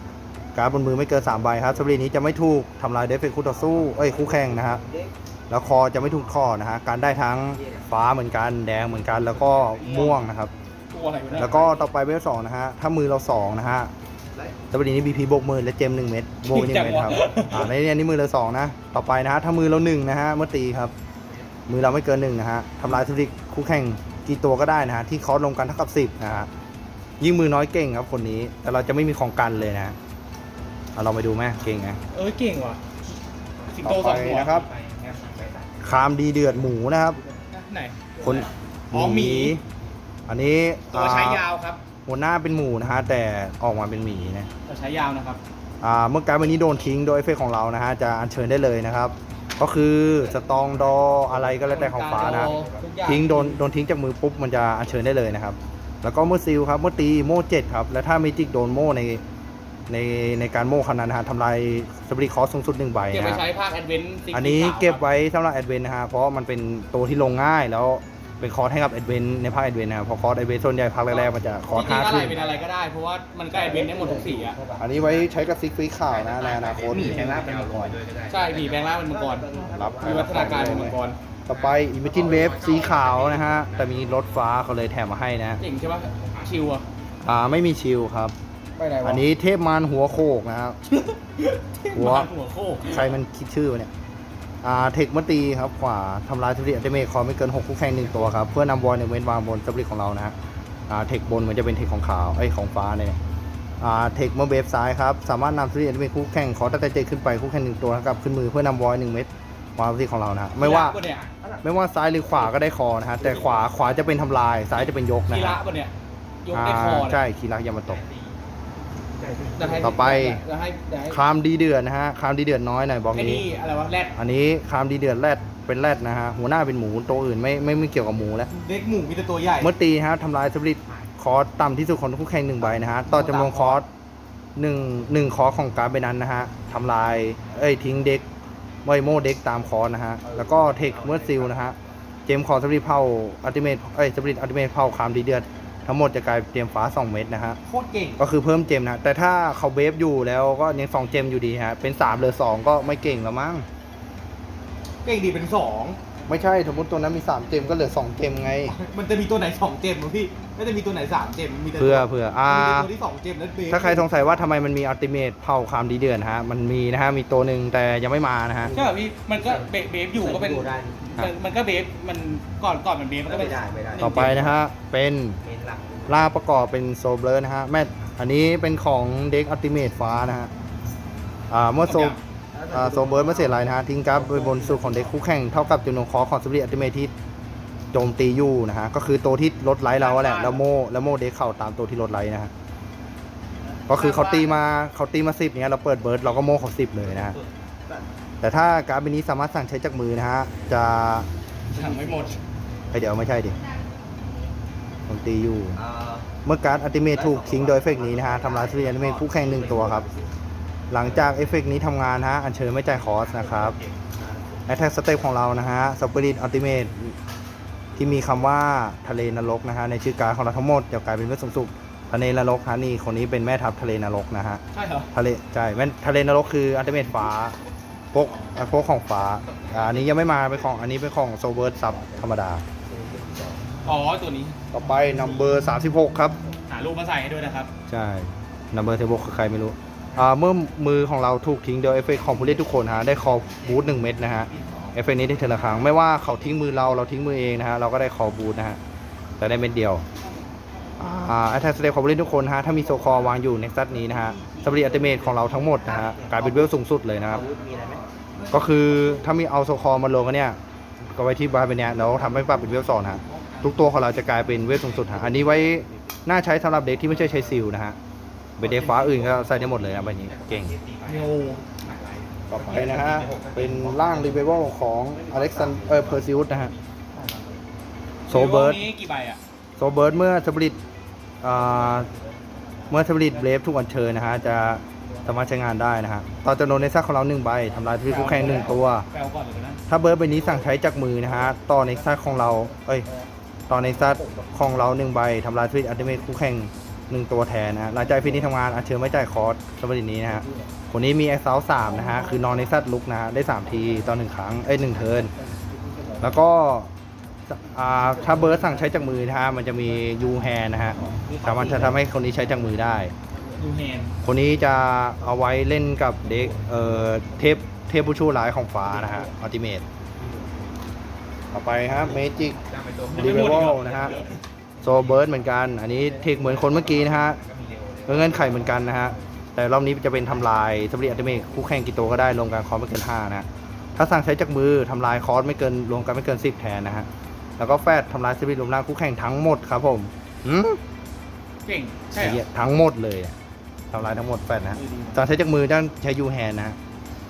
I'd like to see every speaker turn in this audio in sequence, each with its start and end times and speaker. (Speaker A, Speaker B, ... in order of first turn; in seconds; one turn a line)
Speaker A: 0.5-4.8
Speaker B: 3.5-5.1
Speaker A: 5.5-10.5
Speaker B: 7.5-7.8
Speaker C: 9.7-10.2
Speaker C: 10.9-11.8
Speaker A: 11.4-13.9
Speaker B: 14.3-14.6
Speaker A: 14.7-20.9
Speaker C: 16.5-17.7
Speaker D: 21.2-21.5
Speaker A: 21.7-26.5
Speaker A: 27.2-29.9
Speaker A: 30.9-32.0
Speaker C: 32.1-32.8
Speaker C: 33.7-34.7
Speaker A: 33.8-34.7
Speaker D: 34.5-36.1
Speaker A: 35.8-37.2
Speaker C: 37.5-38.1
Speaker A: 38.2-39.6
Speaker D: 38.2-38.5
Speaker C: 38.9-39.6
Speaker A: 40.3-41.4
Speaker C: 40.9-41.8
Speaker A: 42.0-44.5
Speaker C: 44.6-45.4
Speaker A: 45.8-52.5
Speaker B: 50.7-51.6
Speaker C: 51.7-53.6
Speaker D: 52.1-52.7
Speaker A: 53.0-59.2
Speaker A: 59.9-63.4
Speaker C: 63.1-65.0
Speaker A: 64.3-72.4
Speaker B: 71.1-72.5
Speaker C: 71.7-74.6
Speaker D: 71.9-72.5
Speaker B: 73.5-75.1
Speaker A: 74.8-77.7
Speaker D: 74.9-75.2
Speaker D: 76.1-78.9
Speaker C: 76.8-77.4
Speaker B: 76.9-78.0
Speaker C: 78.3-79.5
Speaker B: 78.9-81.0
Speaker A: 79.7-85.6
Speaker C: 80.0-81.2
Speaker D: 81.5-84.3
Speaker C: 85.6-86.8
Speaker A: 87.2-88.3
Speaker C: 88.8-89.3
Speaker A: 89.0-90.8
Speaker C: 90.9-93.1
Speaker A: 91.9-92.3
Speaker A: 92.8-93.9
Speaker A: 94.6-100.3
Speaker A: 100.9-103.2
Speaker A: 103.8-111.0
Speaker C: 110.6-111.2
Speaker D: 110.9-111.6
Speaker A: 111.6-115.6
Speaker B: 113.3-113.9
Speaker C: 115.3-115.9
Speaker C: 116.4-117.2
Speaker A: 116.5-118.0
Speaker D: 117.8-118.4
Speaker D: 119.1-120.0
Speaker C: 119.6-121.2
Speaker A: 119.8-120.4
Speaker A: 121.1-123.4
Speaker C: 123.1-124.2
Speaker A: 124.1-128.5
Speaker C: 128.5-129.7
Speaker A: 129.6-133.9
Speaker C: 133.0-133.8
Speaker A: 134.6-138.2
Speaker A: 138.8-141.8
Speaker B: 140.2-141.8
Speaker A: 142.3-147.6
Speaker C: 147.7-148.2
Speaker A: 148.2-153.7
Speaker C: 155.0-156.0
Speaker A: 156.3-158.7
Speaker C: 158.7-164.1
Speaker A: 161.8-162.9
Speaker A: 163.7-168.7
Speaker B: 168.6-171.1
Speaker C: 168.7-174.2
Speaker B: 173.2-174.6
Speaker A: 174.0-175.4
Speaker B: 175.4-176.3
Speaker A: 176.1-180.5
Speaker A: 181.5-182.2
Speaker C: 181.8-182.2
Speaker B: 182.5-185.1
Speaker A: 182.7-187.1
Speaker A: 187.9-192.5
Speaker C: 189.9-190.6
Speaker A: 193.9-197.4
Speaker C: 193.9-194.5
Speaker B: 197.0-198.1
Speaker A: 198.4-201.3
Speaker C: 201.7-202.4
Speaker B: 201.8-202.3
Speaker A: 202.9-203.6
Speaker A: 205.1-205.8
Speaker B: 205.7-206.3
Speaker A: 206.4-210.1
Speaker B: 207.1-210.3
Speaker A: 210.9-213.8
Speaker D: 212.9-213.9
Speaker B: 214.1-214.6
Speaker A: 214.7-217.1
Speaker A: 217.9-224.6
Speaker C: 224.7-225.1
Speaker A: 225.1-227.6
Speaker A: 228.1-232.6
Speaker D: 229.4-230.8
Speaker B: 232.0-232.2
Speaker B: 232.8-233.7
Speaker C: 233.8-234.6
Speaker A: 234.7-236.4
Speaker C: 236.7-237.7
Speaker A: 237.9-248.8
Speaker D: 242.2-246.6
Speaker A: 249.4-250.1
Speaker A: 251.0-257.4
Speaker D: 252.8-253.2
Speaker D: 254.0-256.3
Speaker B: 254.5-258.1
Speaker D: 257.1-259.2
Speaker A: 258.5-268.0
Speaker D: 262.7-265.4
Speaker B: 264.9-266.1
Speaker D: 267.1-267.5
Speaker A: 268.6-270.7
Speaker D: 268.6-277.6
Speaker C: 271.1-271.6
Speaker A: 272.5-276.7
Speaker B: 272.8-273.3
Speaker A: 278.3-278.8
Speaker C: 278.3-279.4
Speaker A: 279.8-280.8
Speaker A: 281.4-282.1
Speaker D: 281.5-283.0
Speaker A: 282.9-289.1
Speaker C: 288.1-289.8
Speaker A: 289.9-293.1
Speaker D: 290.4-290.7
Speaker C: 291.9-293.3
Speaker A: 293.7-305.3
Speaker C: 293.8-294.5
Speaker C: 300.3-300.7
Speaker C: 301.8-302.5
Speaker B: 305.0-306.3
Speaker A: 306.2-306.9
Speaker A: 307.5-313.1
Speaker C: 308.1-308.7
Speaker B: 310.9-312.8
Speaker C: 311.6-311.9
Speaker C: 313.6-314.1
Speaker A: 314.2-319.8
Speaker D: 316.3-316.7
Speaker D: 320.2-320.7
Speaker A: 321.5-322.6
Speaker D: 322.6-329.3
Speaker C: 323.1-324.4
Speaker A: 323.1-324.2
Speaker A: 324.8-327.4
Speaker A: 328.1-340.8
Speaker C: 341.6-342.4
Speaker A: 342.1-343.3
Speaker A: 343.9-346.8
Speaker C: 344.7-345.2